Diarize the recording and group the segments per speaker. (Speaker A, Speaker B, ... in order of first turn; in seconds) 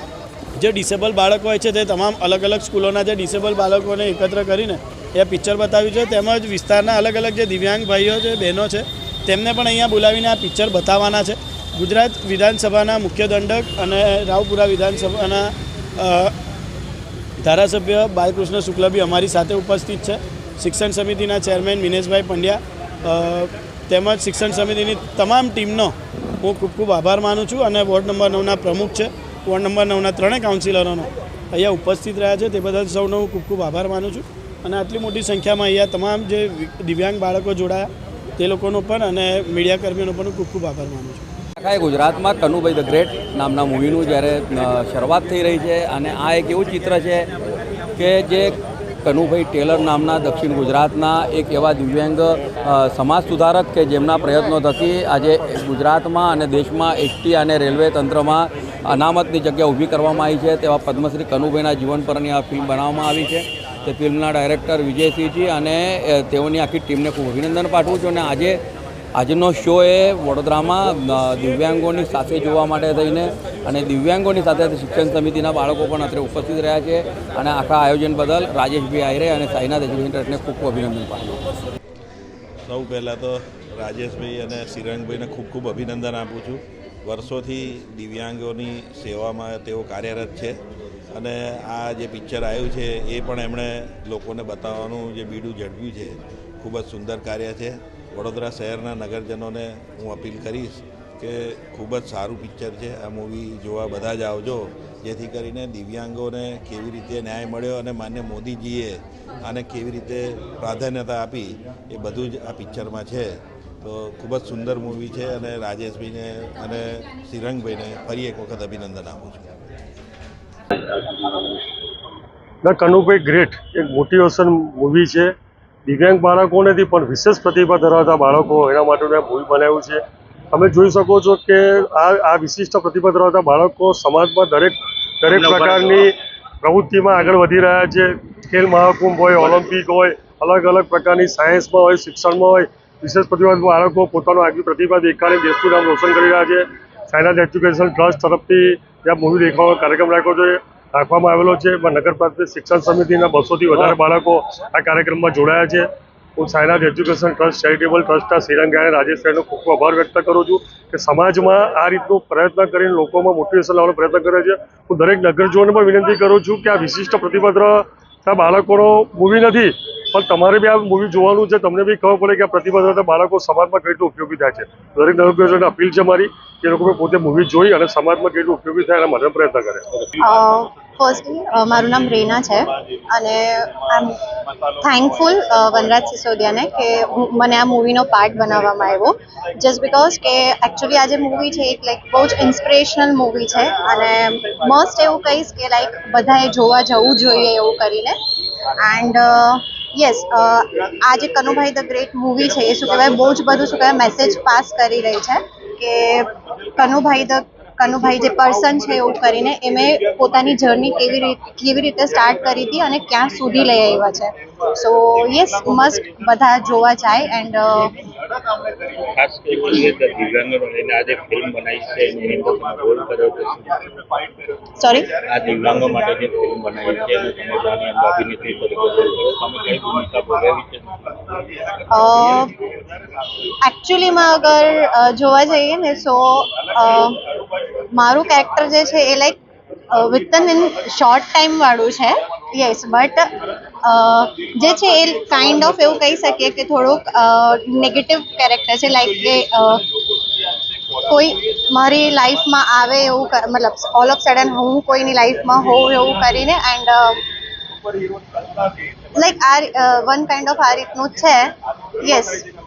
Speaker A: 0.6-16.3, 17.4-41.2
Speaker B: 41.6-47.2, 48.0-48.5, 49.0-52.2, 52.7-68.5, 69.2-81.4
Speaker C: 82.7-90.6, 91.1-113.3, 113.8-119.5
Speaker D: 121.2-121.5, 219.0-223.9, 225.2-231.5
Speaker E: 122.6-125.3, 125.9-130.0, 130.5-136.1, 136.6-155.9, 156.4-179.8
Speaker F: 180.2-184.1, 184.8-198.2, 198.8-217.9, 224.8-225.1, 231.9-232.5, 233.6-237.2, 237.9-239.4, 239.9-243.3, 243.8-249.8, 251.1-257.2, 259.1-262.4